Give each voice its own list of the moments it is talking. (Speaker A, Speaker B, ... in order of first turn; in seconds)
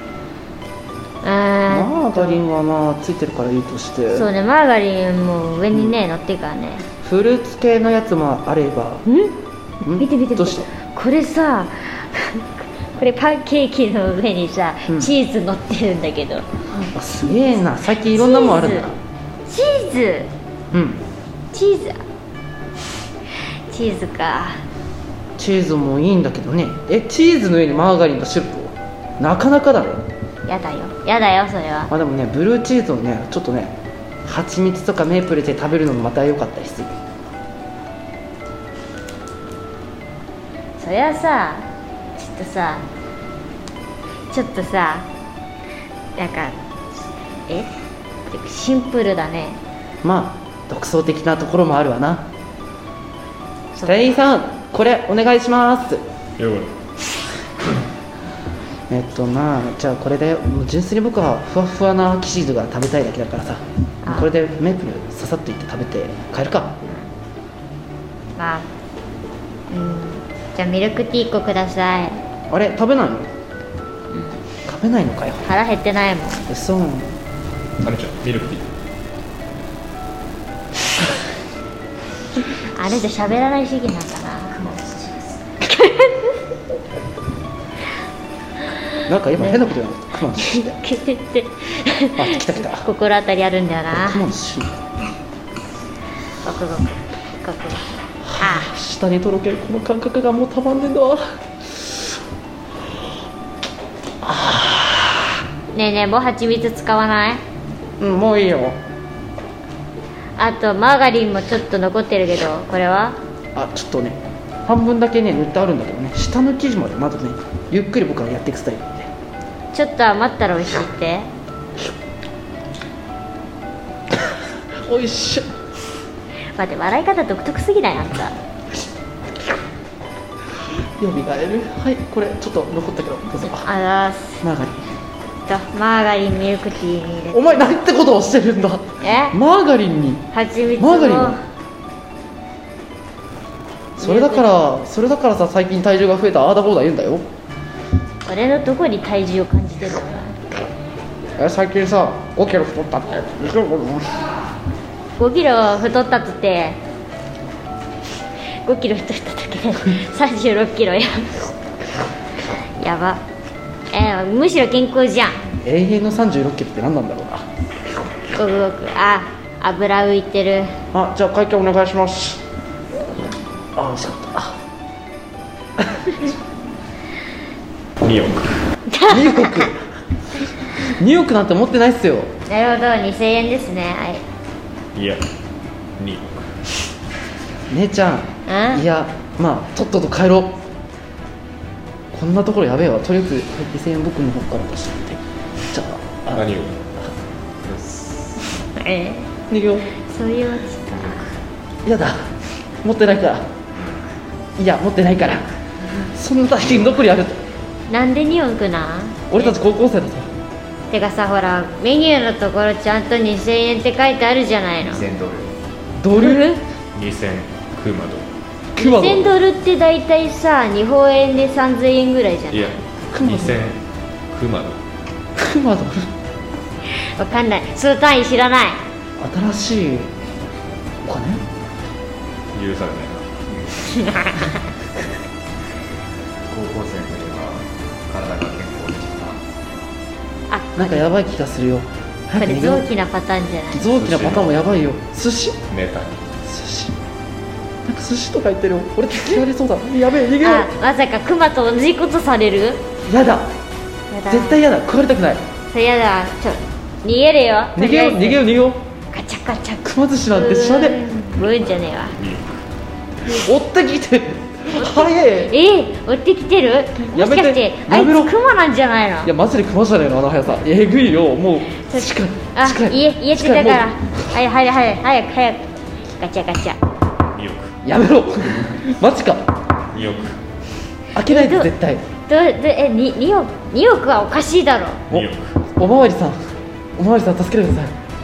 Speaker A: 1.2-2.4, 4.1-6.8, 9.1-16.5, 18.1-18.9, 19.5-20.3, 21.5-22.0, 23.7-24.6, 30.5-31.9, 40.8-41.7, 42.2-42.8, 44.3-45.1, 46.2-46.6, 48.3-49.6, 53.8-54.1, 64.0-64.3, 68.4-68.7, 69.7-72.2, 74.1-74.4, 75.5-76.5, 82.7-84.6, 85.6-86.4, 89.0-89.6, 90.4-94.2, 96.4-98.7, 105.7-107.4, 110.4-113.2, 119.7-121.3, 126.6-128.4, 133.5-134.4, 135.5-137.7, 139.0-139.4, 140.3-141.4, 144.0-144.5, 148.3-150.4, 155.2-156.8, 158.6-161.5, 162.8-163.2, 163.9-165.4, 168.3-170.8, 178.9-179.7, 182.5-184.2, 188.5-188.8, 198.8-199.3, 200.0-201.3, 207.9-209.6, 210.9-215.1, 216.2-216.6, 218.8-222.8, 227.2-228.8, 233.9-234.6, 240.5-241.0, 242.4-243.9, 250.4-252.8, 254.1-254.6, 255.7-258.4, 259.1-262.2, 264.8-269.3, 271.9-276.8, 281.3-281.7, 282.3-285.0
Speaker B: 1.7-4.3, 7.0-9.1, 9.8-10.7, 14.9-15.1, 16.8-19.0, 20.7-21.0, 25.4-30.1, 31.9-37.0, 50.0-52.3, 53.8-56.0, 58.9-66.8, 72.5-73.3, 74.7-75.5, 76.5-77.2, 89.1-90.8, 92.2-92.9, 93.9-94.9, 98.2-102.1, 104.2-105.4, 108.0-108.8, 113.5-119.1, 124.1-125.5, 131.0-133.7, 134.4-134.9, 137.3-140.3, 140.8-141.4, 144.0-147.3, 151.4-154.3, 165.6-167.5, 170.9-172.4, 173.8-174.6, 175.8-176.2, 179.1-179.8, 180.8-182.3, 187.7-190.6, 192.1-196.5, 199.5-199.9, 201.8-202.3, 202.8-203.5, 204.6-205.5, 206.0-207.4, 209.3-210.3, 216.0-216.5, 218.8-219.3, 223.1-223.6, 225.4-226.1, 229.2-230.1, 231.0-231.4, 240.8-242.9, 243.7-245.6, 246.4-247.0, 247.9-250.7, 253.1-253.5, 254.3-255.4, 257.8-258.9, 259.9-261.0, 263.2-265.5, 267.0-268.4, 269.2-274.1, 277.8-279.5, 281.1-282.1, 285.1-287.9
Speaker C: 56.4-56.7, 77.8-78.7, 178.0-178.7, 184.9-185.3, 186.0-186.6, 196.3-196.8, 216.9-218.3, 222.5-223.8, 224.3-224.8, 232.5-233.3, 243.9-244.6, 245.7-246.3, 261.4-262.6, 277.3-277.8, 279.9-280.4, 285.1-285.6
Speaker D: 84.5-85.4, 197.7-198.4, 214.8-215.5, 236.5-239.4